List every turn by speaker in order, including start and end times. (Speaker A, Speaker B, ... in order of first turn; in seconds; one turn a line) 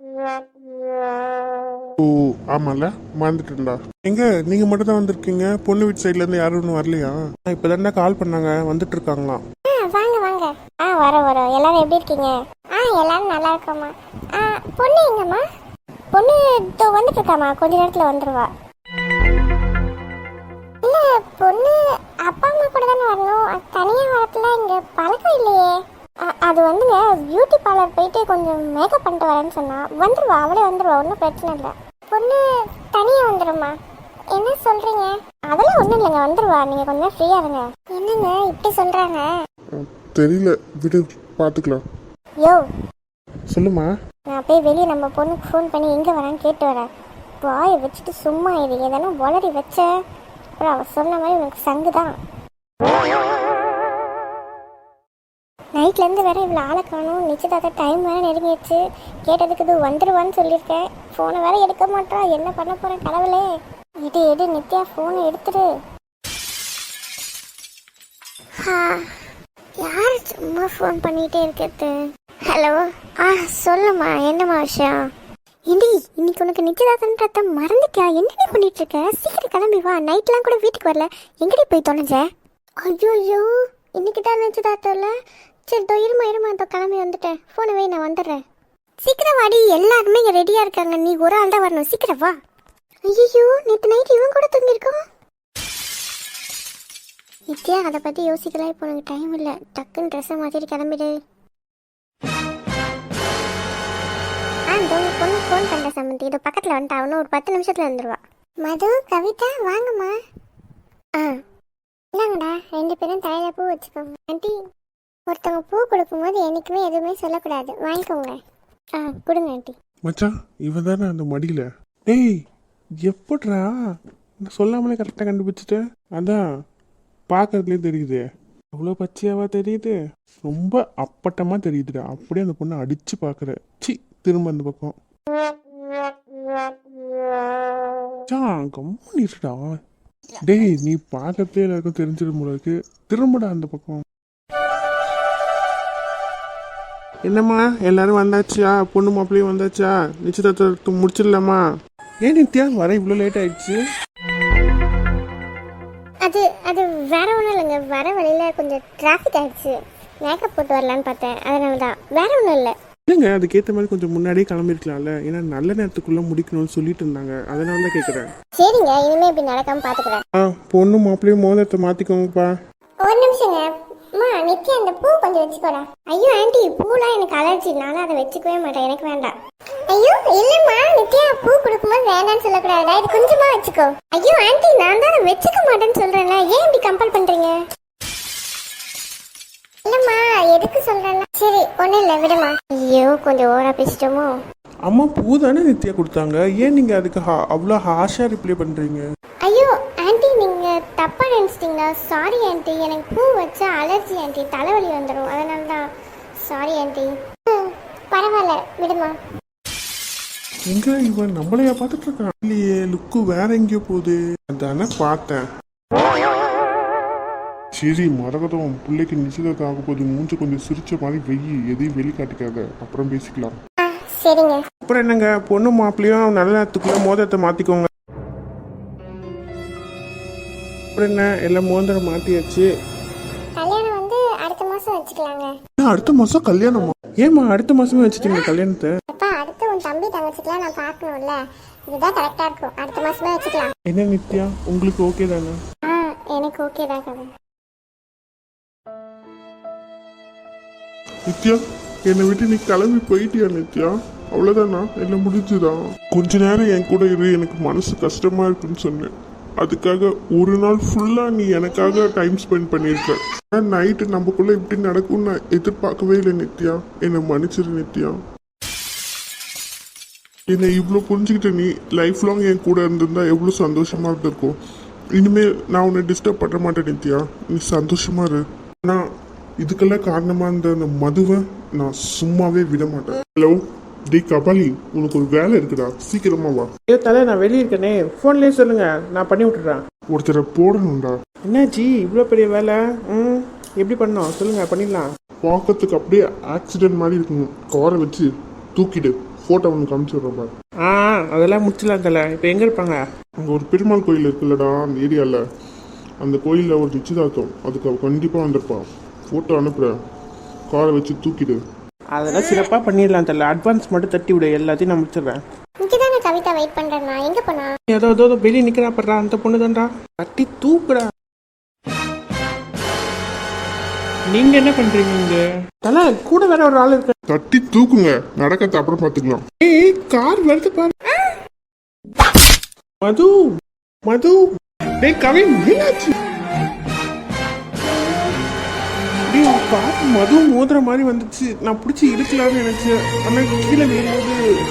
Speaker A: 2.0-9.4
Speaker B: 9.7-15.4
Speaker B: 16.1-18.5
Speaker B: 20.8-25.7
Speaker B: 26.4-33.7
Speaker B: 34.3-39.3
Speaker A: 39.9-41.8
Speaker C: 40.2-41.8
Speaker C: 43.5-43.9
Speaker B: 44.3-46.9
Speaker B: 47.4-49.9
Speaker B: 50.6-52.1
Speaker B: 55.8-63.5
Speaker B: 64.0-65.7
Speaker B: 68.6-69.0
Speaker B: 69.8-75.0
Speaker B: 75.7-82.2
Speaker B: 82.8-85.1
Speaker B: 85.7-88.4
Speaker B: 89.0-92.3
Speaker B: 93.0-95.0
Speaker B: 97.5-101.1
Speaker B: 104.7-110.2
Speaker B: 112.1-114.5
Speaker B: 115.3-118.4
Speaker B: 119.0-119.7
Speaker A: 120.1-122.3
Speaker A: 123.0-123.7
Speaker A: 124.4-126.4
Speaker A: 127.3-128.2
Speaker A: 128.8-134.9
Speaker C: 128.9-129.9
Speaker A: 138.3-139.7
Speaker C: 138.3-139.0
Speaker A: 140.5-144.0
Speaker C: 147.3-149.9
Speaker A: 147.3-151.6
Speaker C: 150.6-150.9
Speaker A: 152.2-153.8
Speaker B: 156.2-162.7
Speaker A: 163.1-168.2
Speaker C: 164.9-165.8
Speaker C: 166.5-167.9
Speaker B: 168.6-170.2
Speaker A: 170.5-172.5
Speaker C: 171.0-172.3
Speaker B: 173.0-179.3
Speaker B: 179.9-187.5
Speaker B: 189.8-194.3
Speaker A: 194.9-199.0
Speaker C: 194.9-198.7
Speaker B: 199.4-205.9
Speaker B: 206.4-209.1
Speaker A: 210.7-215.4
Speaker C: 212.9-213.4
Speaker A: 217.8-223.5
Speaker C: 218.2-218.5
Speaker B: 223.8-224.6
Speaker C: 224.9-227.9
Speaker A: 225.0-227.7
Speaker C: 231.0-232.6
Speaker A: 231.0-232.4
Speaker B: 233.6-235.5
Speaker A: 235.8-236.8
Speaker C: 237.0-238.9
Speaker B: 239.1-243.7
Speaker A: 243.9-245.5
Speaker C: 244.2-245.6
Speaker B: 245.8-247.3
Speaker A: 251.3-259.1
Speaker C: 256.3-259.0
Speaker A: 259.6-268.1
Speaker C: 260.6-261.1
Speaker C: 261.9-262.7
Speaker C: 263.7-265.1
Speaker C: 265.7-266.5
Speaker C: 267.6-268.0
Speaker A: 270.5-274.5
Speaker C: 270.6-271.7
Speaker C: 272.8-273.6
Speaker C: 274.1-274.5
Speaker A: 275.2-279.0
Speaker C: 275.3-276.5
Speaker A: 279.6-283.6
Speaker A: 284.1-286.7
Speaker C: 286.9-289.8
Speaker A: 290.1-291.1
Speaker C: 291.5-295.1
Speaker A: 295.4-300.5
Speaker C: 300.8-303.0
Speaker A: 303.4-305.4
Speaker A: 306.2-309.9
Speaker A: 310.7-311.6
Speaker C: 312.1-315.4
Speaker B: 315.8-317.7
Speaker C: 317.9-321.1
Speaker C: 324.3-327.1
Speaker A: 327.3-329.4
Speaker C: 329.6-330.9
Speaker C: 333.0-333.3
Speaker C: 334.1-334.4
Speaker C: 335.0-336.1
Speaker C: 339.3-341.1
Speaker A: 339.4-344.3
Speaker C: 343.6-344.2